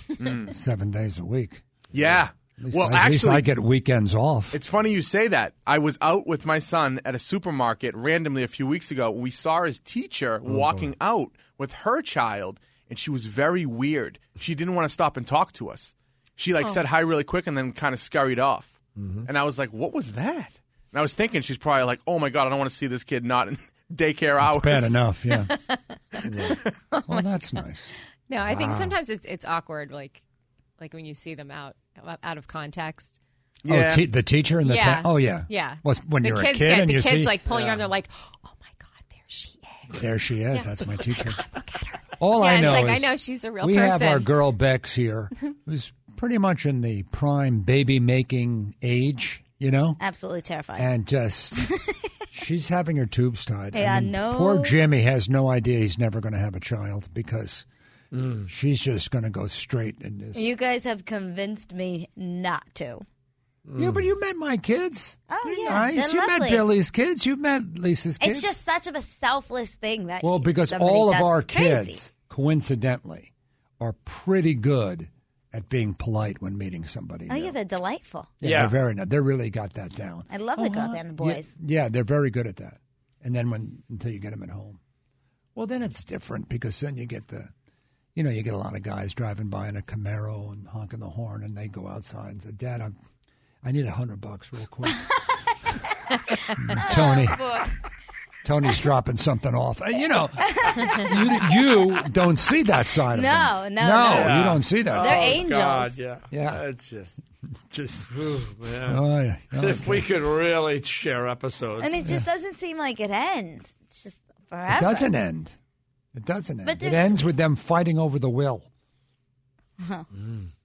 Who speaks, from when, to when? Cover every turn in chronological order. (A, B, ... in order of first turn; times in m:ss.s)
0:00.2-0:00.5 A
0:00.4-0:04.6 B
0:01.9-0:03.5 A
0:04.5-0:25.0 A
0:10.5-0:10.9 C
0:19.0-0:19.3 C
0:24.4-0:25.5 B
0:26.1-0:27.4 D
0:26.3-0:26.6 C
0:27.1-0:27.9 B
0:28.3-0:30.0 D
0:28.5-0:28.9 C
0:30.8-0:31.1 D
0:31.8-0:33.0 D
0:33.6-0:34.0 A
0:33.7-0:37.4 B
0:34.7-0:38.1 D
0:37.5-0:37.8 C
0:39.9-0:41.4 B
0:40.8-0:44.2 D
0:42.2-0:50.0 B
0:50.0-0:50.9 E
0:50.8-0:51.8 B
0:52.3-0:57.7 B
0:53.7-0:54.8 E
0:58.1-0:58.5 C
0:58.4-1:00.5 B
1:00.3-1:03.0 E
1:03.7-1:04.1 C
1:03.8-1:08.6 B
1:05.3-1:06.7 E
1:08.2-1:12.0 E
1:10.2-1:17.6 B
1:17.3-1:18.3 E
1:18.4-1:24.8 B
1:18.4-1:18.8 C
1:20.3-1:21.5 E
1:25.6-1:27.5 B
1:28.2-1:32.9 B
1:33.6-1:35.1 B
1:36.6-1:37.5 B
1:36.8-1:37.7 E
1:38.4-1:45.4 B
1:43.1-1:44.3 E
1:44.1-1:47.2 C
1:44.9-1:46.0 E
1:46.3-1:46.6 B
1:47.7-1:48.1 B
1:48.1-1:49.0 C
1:48.8-1:50.1 B
1:49.5-1:52.0 C
1:51.8-1:55.1 E
1:52.0-1:52.3 B
1:54.7-1:55.6 B
1:56.2-1:58.7 B
1:56.6-1:57.4 E
1:59.8-2:00.1 E
2:00.2-2:00.5 C